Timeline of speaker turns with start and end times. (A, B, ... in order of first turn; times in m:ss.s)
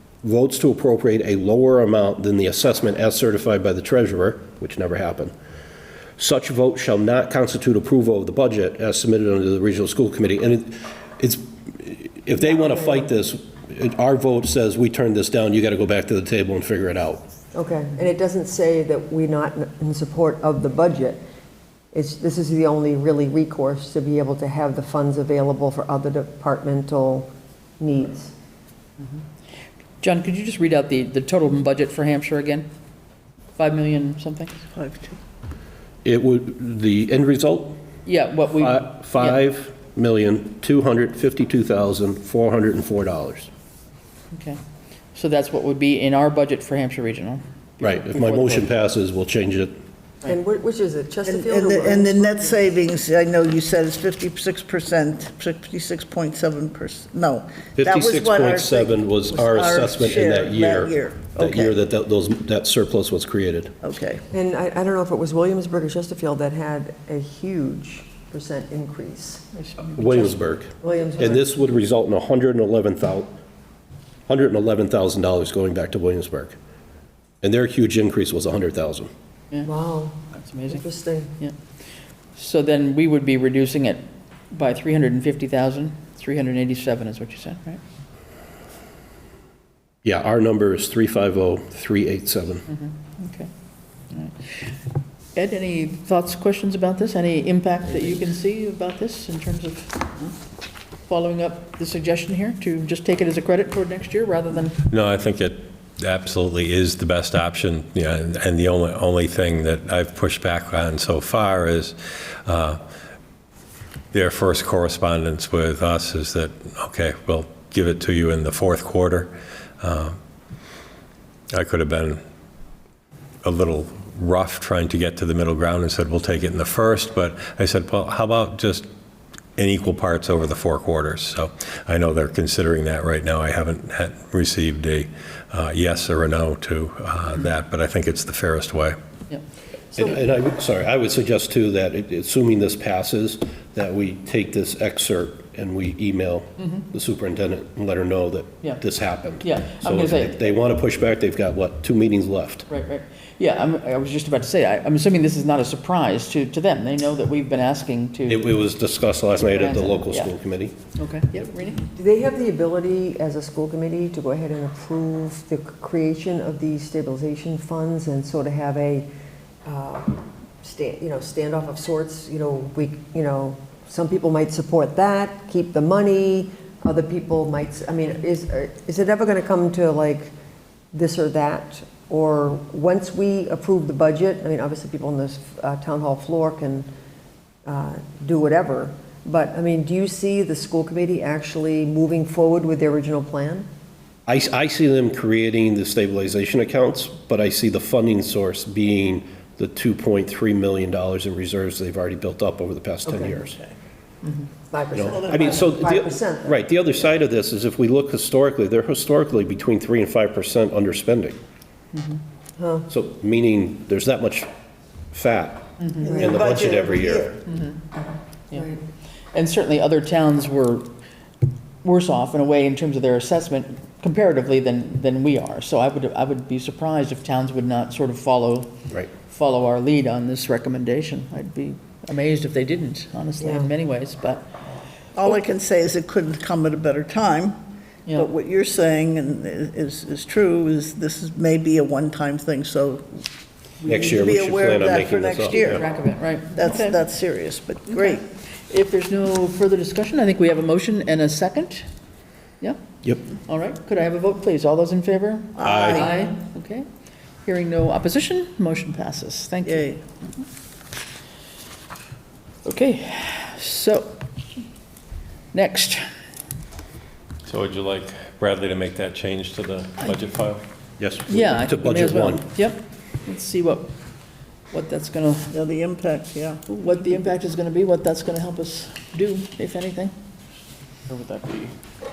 0:00.2-0:05.3 A
0:06.2-0:17.2 A
0:17.5-0:21.2 B
0:21.9-0:27.3 B
0:27.8-0:28.3 B
0:30.0-0:32.7 C
0:33.6-0:34.6 C
0:34.7-0:35.2 D
0:36.0-0:37.8 A
0:38.0-0:39.4 C
0:38.6-0:43.5 A
0:44.3-0:44.6 C
0:45.1-0:48.7 C
0:47.8-0:49.8 A
0:50.2-0:52.5 B
0:51.2-1:01.8 D
0:57.8-1:03.7 A
1:03.8-1:04.2 D
1:04.3-1:09.5 B
1:09.6-1:10.1 C
1:09.9-1:13.4 A
1:10.8-1:11.5 B
1:14.3-1:16.6 A
1:17.4-1:19.1 A
1:19.6-1:21.3 B
1:20.3-1:20.8 C
1:22.4-1:27.8 C
1:30.0-1:32.6 A
1:32.7-1:33.5 C
1:34.1-1:34.5 C
1:35.3-1:40.2 C
1:41.1-1:44.8 C
1:44.9-1:52.8 E
1:54.1-2:00.2 E
2:01.5-2:02.2 E
2:03.4-2:08.9 E
2:09.6-2:19.0 E
2:20.0-2:32.7 A
2:29.4-2:30.5 C
2:32.7-2:38.5 C
2:38.3-2:40.8 A
2:39.5-2:40.3 C
2:40.8-2:41.9 C
2:41.9-2:49.1 B
2:49.6-3:00.3 B
3:00.9-3:06.9 B
3:07.6-3:13.6 B
3:14.3-3:23.7 A
3:23.0-3:23.4 B
3:24.7-3:26.6 B
3:24.9-3:31.4 A
3:31.9-3:32.2 C
3:32.6-3:32.9 B
3:32.9-3:34.5 A
3:35.1-3:37.4 A
3:36.0-3:37.3 D
3:36.1-3:36.4 B
3:37.4-3:37.8 C
3:38.5-3:38.8 B
3:39.3-3:40.9 C
3:41.8-3:54.5 C
3:53.4-3:53.7 B
3:55.1-3:57.6 D
3:58.1-4:03.2 D
4:03.8-4:04.1 C
4:03.9-4:05.8 A
4:03.9-4:05.8 D
4:05.5-4:07.0 C
4:06.5-4:08.2 D
4:08.0-4:11.8 C
4:12.6-4:16.8 C
4:15.6-4:16.1 D
4:17.4-4:19.9 C
4:19.6-4:20.0 D
4:22.6-4:24.2 C
4:25.5-4:26.0 C
4:27.4-4:30.6 E
4:31.0-4:32.5 A
4:31.3-4:33.9 C
4:34.7-4:35.5 C
4:35.5-4:37.1 D
4:36.7-4:40.1 C
4:41.1-4:41.7 C